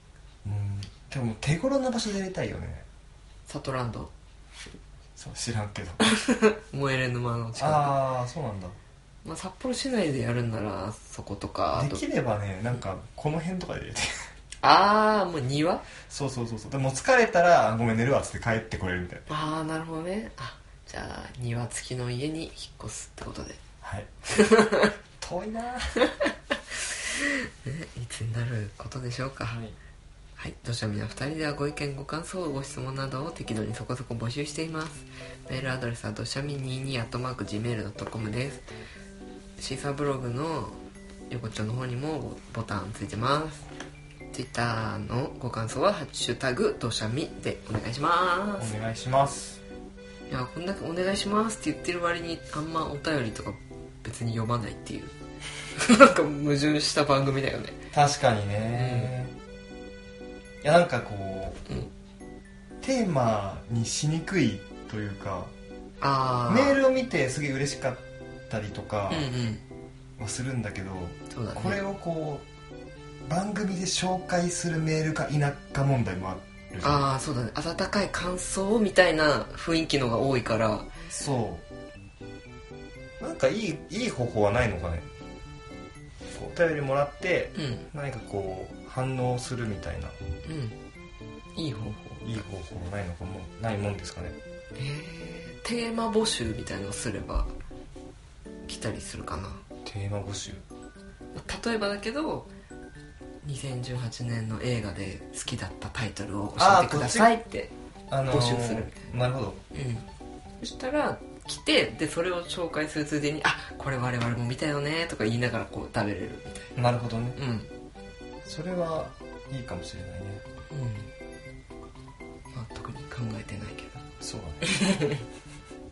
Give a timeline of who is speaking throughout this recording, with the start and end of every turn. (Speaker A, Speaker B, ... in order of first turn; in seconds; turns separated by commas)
Speaker A: 0.4-2.9, Speaker B: 3.5-4.1, Speaker A: 5.2-6.0, Speaker B: 6.0-8.0, Speaker A: 7.6-8.8, Speaker B: 9.2-12.0, Speaker A: 11.7-14.2, Speaker B: 14.6-15.8, Speaker A: 16.1-19.2, Speaker B: 19.3-23.6, Speaker A: 23.8-24.5, Speaker B: 24.3-24.9, Speaker A: 25.2-26.0, Speaker B: 26.1-26.3, Speaker B: 26.9-29.6, Speaker A: 29.5-29.8, Speaker B: 30.4-38.6, Speaker B: 39.6-40.8, Speaker B: 41.3-43.7, Speaker B: 44.3-48.7, Speaker A: 48.6-49.6, Speaker B: 50.3-55.1, Speaker B: 55.8-57.8, Speaker A: 57.9-59.3, Speaker B: 58.7-59.1, Speaker A: 60.6-61.6, Speaker A: 62.8-65.5, Speaker B: 66.0-66.8, Speaker A: 66.5-69.3, Speaker B: 69.1-69.6, Speaker A: 70.2-72.5, Speaker B: 71.3-71.8, Speaker A: 73.2-77.0, Speaker B: 76.8-80.9, Speaker A: 81.1-81.6, Speaker A: 83.2-85.1, Speaker A: 86.3-90.2, Speaker B: 87.6-87.9, Speaker B: 90.5-90.8, Speaker B: 91.5-92.4, Speaker A: 92.2-94.4, Speaker B: 94.8-97.5, Speaker B: 98.7-99.6, Speaker A: 99.8-100.6, Speaker B: 101.3-102.5, Speaker B: 103.4-107.7, Speaker A: 106.6-107.3, Speaker A: 108.1-109.6, Speaker B: 108.3-109.1, Speaker B: 109.7-110.1, Speaker B: 110.6-116.7, Speaker A: 116.8-117.4, Speaker B: 117.4-117.7, Speaker A: 118.5-120.4, Speaker B: 120.7-121.1, Speaker B: 122.5-124.0, Speaker A: 124.2-124.8, Speaker B: 124.6-125.2